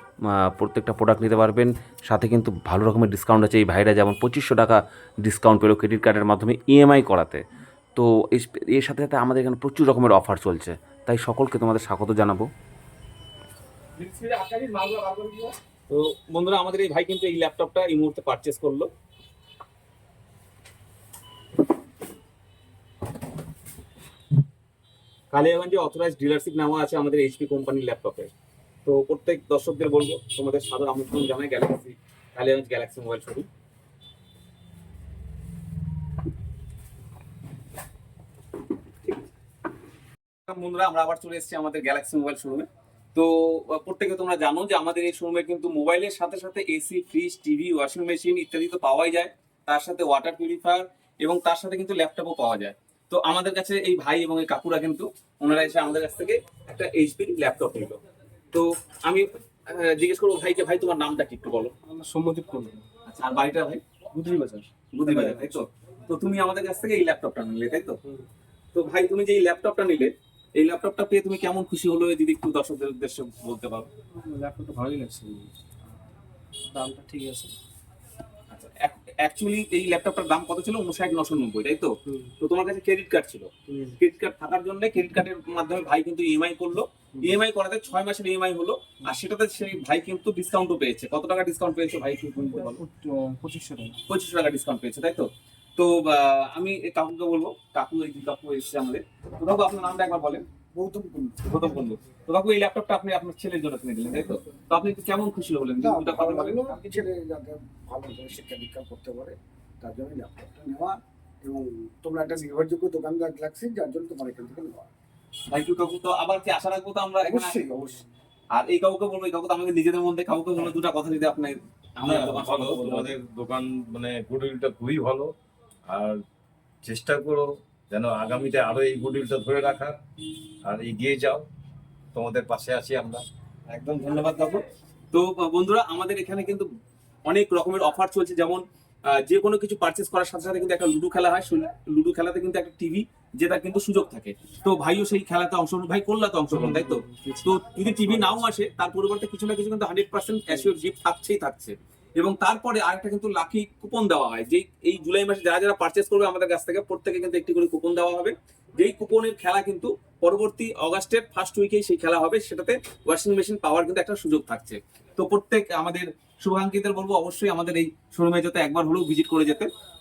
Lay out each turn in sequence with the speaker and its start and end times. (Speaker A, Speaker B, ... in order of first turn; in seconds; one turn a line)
Speaker A: 0.3-7.4
Speaker A: 8.0-12.5
Speaker B: 14.0-15.4
Speaker B: 15.9-18.9
Speaker B: 25.3-28.3
Speaker B: 28.9-33.5
Speaker B: 40.5-58.0
Speaker B: 58.5-61.7
Speaker C: 61.9-62.8
Speaker B: 63.1-63.8
Speaker C: 64.1-65.6
Speaker B: 64.9-68.0
Speaker B: 68.7-73.9
Speaker C: 74.2-75.5
Speaker C: 76.7-77.5
Speaker B: 78.5-92.8
Speaker C: 83.7-84.0
Speaker C: 92.5-94.0
Speaker B: 94.1-100.5
Speaker D: 100.7-101.4
Speaker B: 101.5-107.0
Speaker D: 105.8-114.9
Speaker B: 115.5-117.8
Speaker D: 117.3-117.9
Speaker B: 118.5-123.2
Speaker E: 122.0-125.3
Speaker E: 125.9-126.2
Speaker E: 126.8-130.0
Speaker E: 130.7-131.5
Speaker E: 132.1-133.2
Speaker B: 133.7-136.7
Speaker B: 137.3-169.7
Speaker C: 146.5-148.4